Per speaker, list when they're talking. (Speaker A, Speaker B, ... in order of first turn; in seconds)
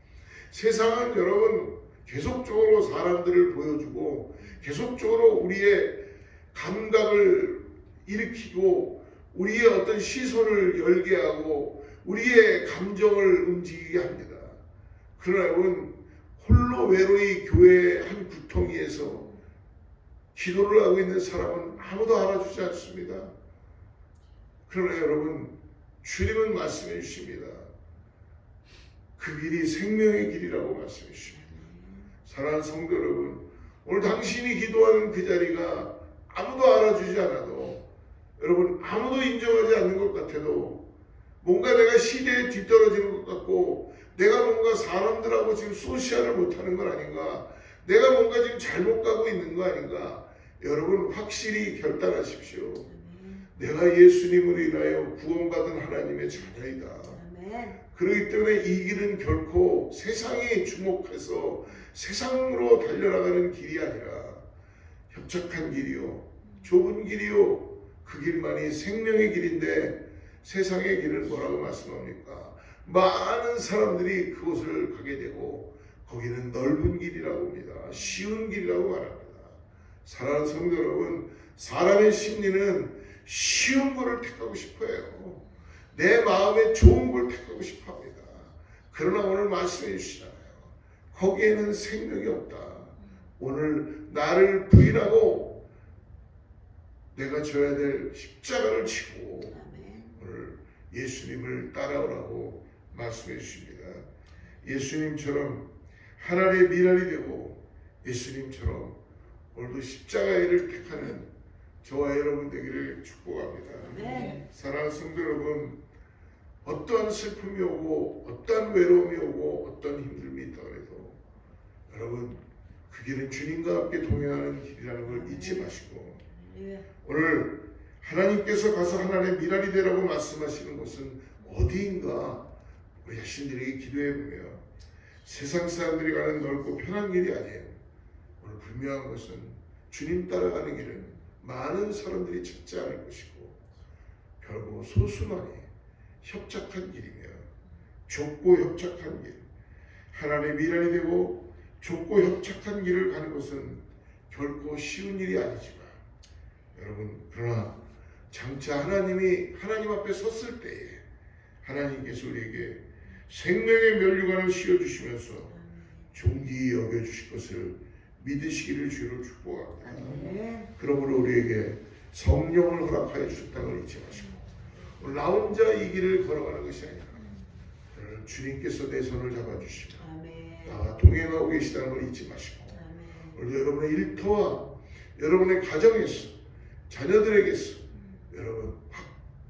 Speaker A: 0.5-14.6, 15.2-19.3, 20.3-23.3, 24.7-27.7, 29.2-31.5, 32.2-37.9, 38.4-40.9, 41.4-52.9, 53.5-57.2, 57.9-64.4, 65.1-95.6, 97.1-99.6, 100.1-104.0, 104.6-109.0, 109.5-111.3, 111.8-115.8, 116.6-121.2, 121.9-126.2, 127.0-132.5, 133.0-134.6, 135.2-137.8, 138.4-143.6, 144.4-145.7, 146.2-147.5, 148.1-149.4, 150.1-156.0, 156.8-157.8, 158.3-161.0, 161.6-165.6, 166.1-174.4, 175.0-177.2, 177.9-180.1, 180.6-186.4, 186.9-189.2
Speaker B: 31.6-32.0, 57.2-57.7, 99.6-100.1, 114.0-114.3, 126.5-126.8, 170.2-170.7, 180.1-180.7, 182.8-183.3